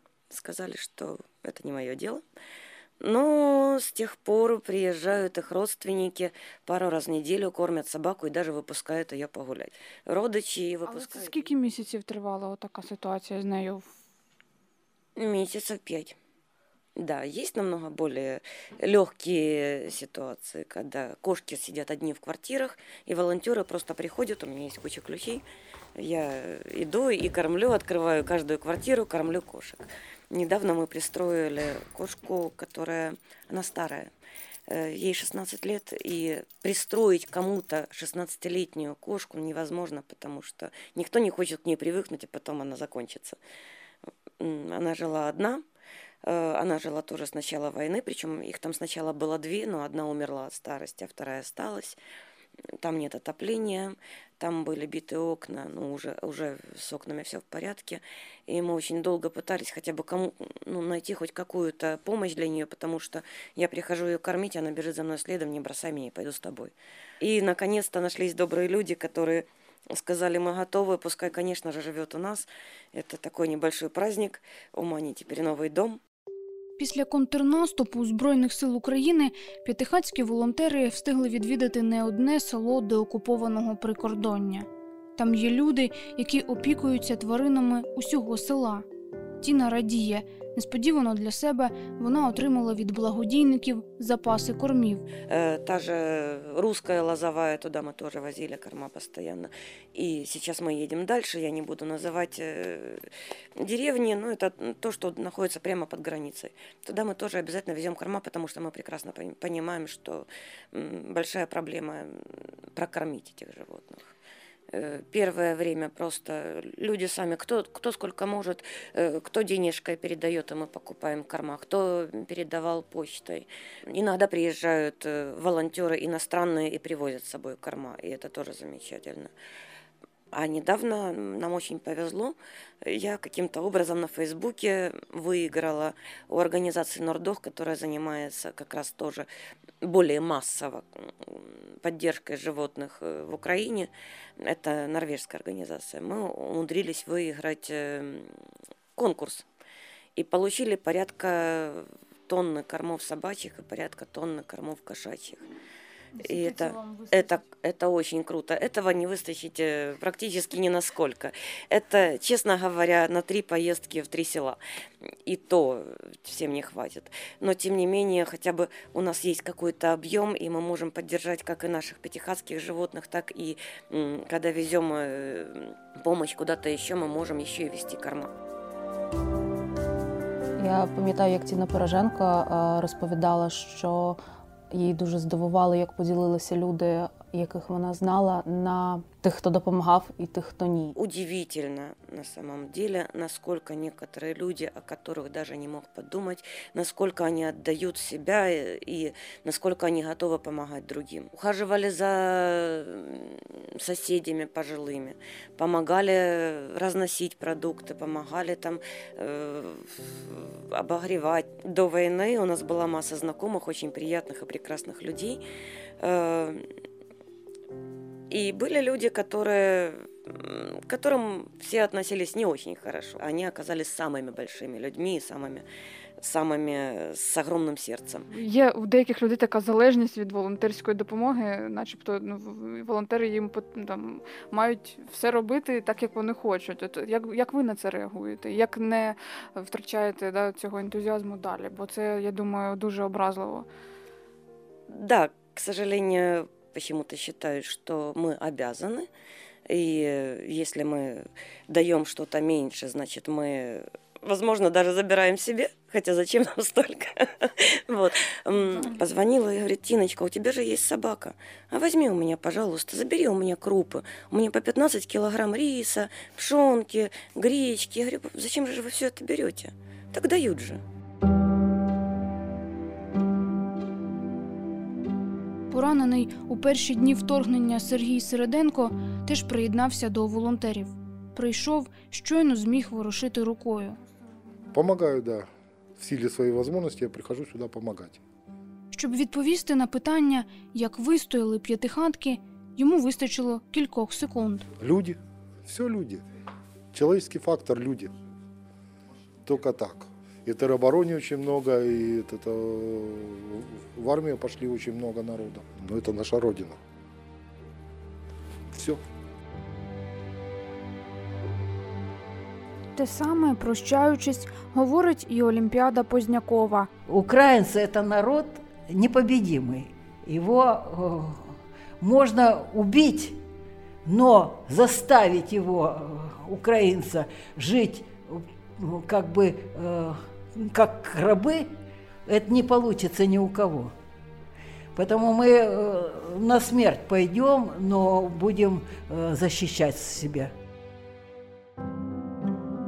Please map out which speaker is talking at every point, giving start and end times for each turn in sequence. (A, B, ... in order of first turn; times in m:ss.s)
0:00.3-0:02.2 A
0:03.0-0:11.5 A
0:10.8-0:13.9 B
0:15.2-0:16.2 A
0:17.0-0:25.4 A
0:26.0-0:34.1 A
0:34.7-0:43.4 A
0:44.4-0:45.6 A
0:46.2-0:52.0 A
0:52.8-1:16.0 A
1:16.8-1:28.8 C
1:29.4-1:35.0 C
1:35.3-1:43.0 A
1:43.6-1:52.2 A
1:52.7-1:54.1 A
1:54.7-2:09.3 A
2:10.3-2:19.3 A
2:19.8-2:23.9 A
2:24.4-2:28.4 A
2:29.0-2:29.4 A
2:30.2-2:35.4 A
2:36.2-2:37.4 B
2:36.2-2:58.3 A
3:00.6-3:04.2 D
3:04.7-3:10.9 D
3:10.9-3:35.4 A
3:36.0-3:36.6 A
3:38.3-3:45.6 A
3:46.2-3:48.3 A
3:48.3-4:03.7 B
4:04.9-4:09.1 A
4:09.7-4:30.8 A
4:35.7-4:44.0 C
4:44.7-4:48.2 E
4:48.9-4:54.7 C
4:54.8-4:56.2 E
4:56.9-4:58.1 E
4:59.4-5:06.8 E
5:08.7-5:09.0 E
5:13.0-5:16.9 C
5:17.0-5:23.4 F
5:24.0-5:31.7 F
5:32.2-5:33.9 F
5:34.9-5:40.5 F